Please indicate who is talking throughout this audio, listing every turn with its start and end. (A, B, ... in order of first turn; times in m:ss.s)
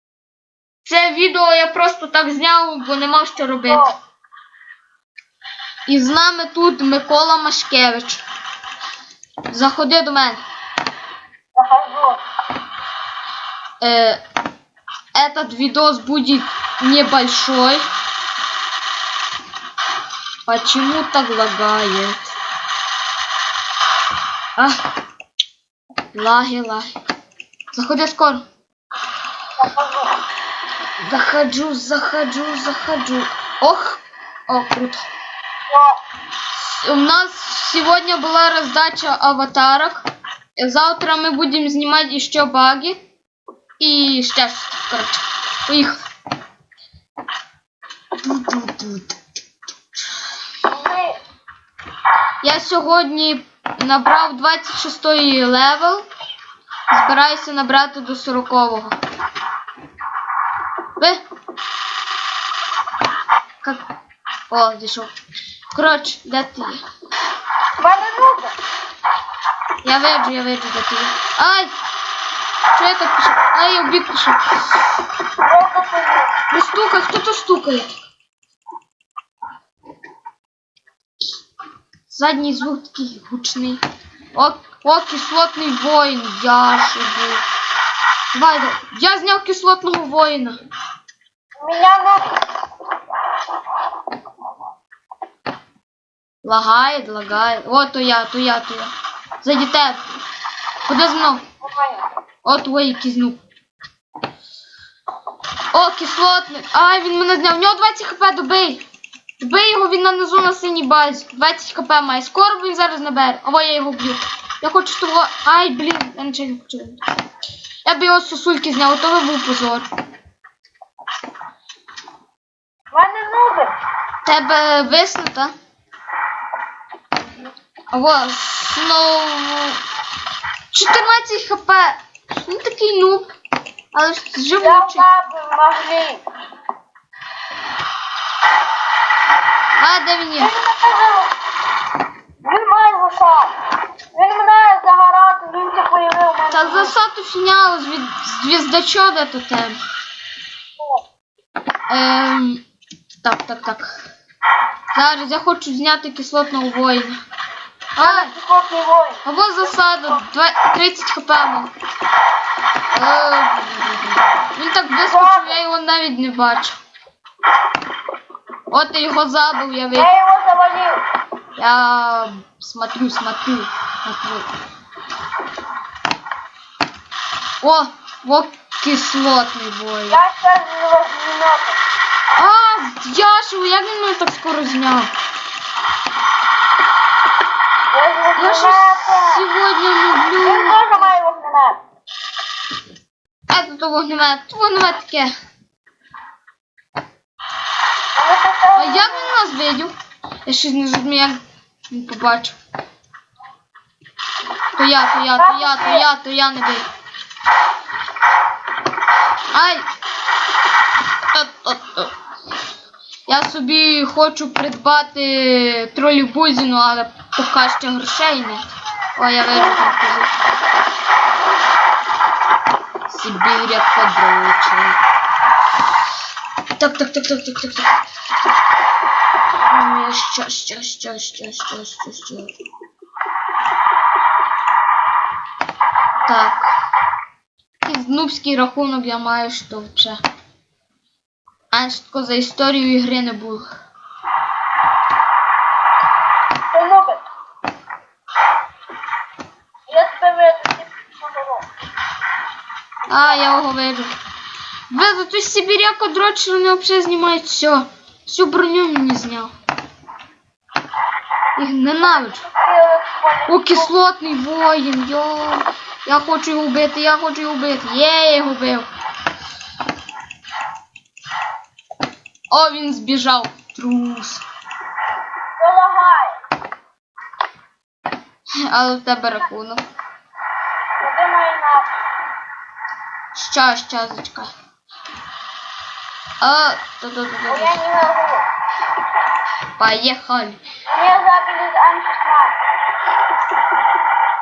0:00.8-0:03.9 A
0:03.7-0:03.9 B
0:05.9-0:08.2 A
0:09.5-0:10.4 A
0:11.6-0:12.2 B
0:13.8-0:14.2 A
0:15.1-0:17.9 A
0:20.5-0:22.4 A
0:24.6-0:24.8 A
0:26.1-0:26.9 A
0:27.7-0:28.4 A
0:29.6-0:30.2 B
0:31.0-0:35.1 A
0:35.7-0:36.0 B
0:36.5-0:40.1 A
0:40.6-0:43.0 A
0:43.8-0:46.0 A
0:48.2-0:49.2 A
0:50.7-0:51.2 B
0:52.4-0:56.1 A
0:56.9-0:59.0 A
1:01.0-1:01.2 A
1:04.5-1:05.1 A
1:05.7-1:06.8 A
1:07.8-1:08.6 B
1:09.8-1:11.7 A
1:12.7-1:14.6 A
1:15.4-1:16.3 B
1:16.5-1:17.9 A
1:22.1-1:23.8 A
1:24.3-1:27.4 A
1:28.3-1:30.6 A
1:31.6-1:32.4 B
1:36.4-1:38.9 A
1:39.4-1:40.0 A
1:40.9-1:41.4 A
1:41.6-1:42.0 B
1:42.4-1:43.4 A
1:45.7-1:48.8 A
1:49.4-1:57.0 A
1:57.8-1:59.9 A
2:02.9-2:03.7 B
2:04.2-2:05.5 A
2:07.9-2:09.8 A
2:10.7-2:13.3 A
2:13.9-2:15.0 A
2:14.6-2:16.2 B
2:19.8-2:20.5 A
2:20.4-2:21.3 B
2:22.4-2:23.5 B
2:24.2-2:26.9 B
2:26.5-2:29.8 A
2:30.8-2:31.0 B
2:31.9-2:32.6 A
2:33.2-2:34.0 A
2:34.9-2:37.2 A
2:38.0-2:38.3 A
2:38.0-2:39.2 B
2:39.2-2:41.7 A
2:42.9-2:46.8 A
2:45.0-2:45.6 B
2:48.7-2:50.1 A
2:49.9-2:51.0 B
2:51.6-2:54.5 A
2:57.6-3:00.2 A
3:00.1-3:01.8 B
3:02.4-3:05.1 A
3:07.9-3:09.4 B
3:08.4-3:11.1 A
3:10.4-3:11.8 B
3:13.5-3:15.3 A
3:18.2-3:19.3 B
3:18.8-3:19.9 A
3:20.5-3:21.4 A
3:21.9-3:22.6 A
3:24.8-3:26.9 A
3:25.4-3:26.0 B
3:29.5-3:29.8 A
3:31.3-3:32.1 A
3:33.3-3:40.3 A
3:43.1-3:45.0 A
3:46.8-3:48.0 A
3:49.5-3:52.5 A
3:56.3-3:56.7 A
3:57.8-4:00.2 A
4:01.7-4:03.7 A
4:06.7-4:07.2 B
4:09.9-4:11.7 B
4:13.1-4:13.5 B
4:13.1-4:14.1 A
4:14.9-4:19.5 A
4:21.6-4:22.4 A
4:22.0-4:23.9 B
4:23.5-4:28.9 A
4:32.5-4:34.4 A
4:35.6-4:36.4 B
4:38.6-4:39.8 A
4:41.0-4:41.9 B
4:43.3-4:44.5 A
4:46.4-4:47.8 A
4:47.5-4:48.5 B
4:49.8-4:50.6 A
4:50.9-4:52.6 B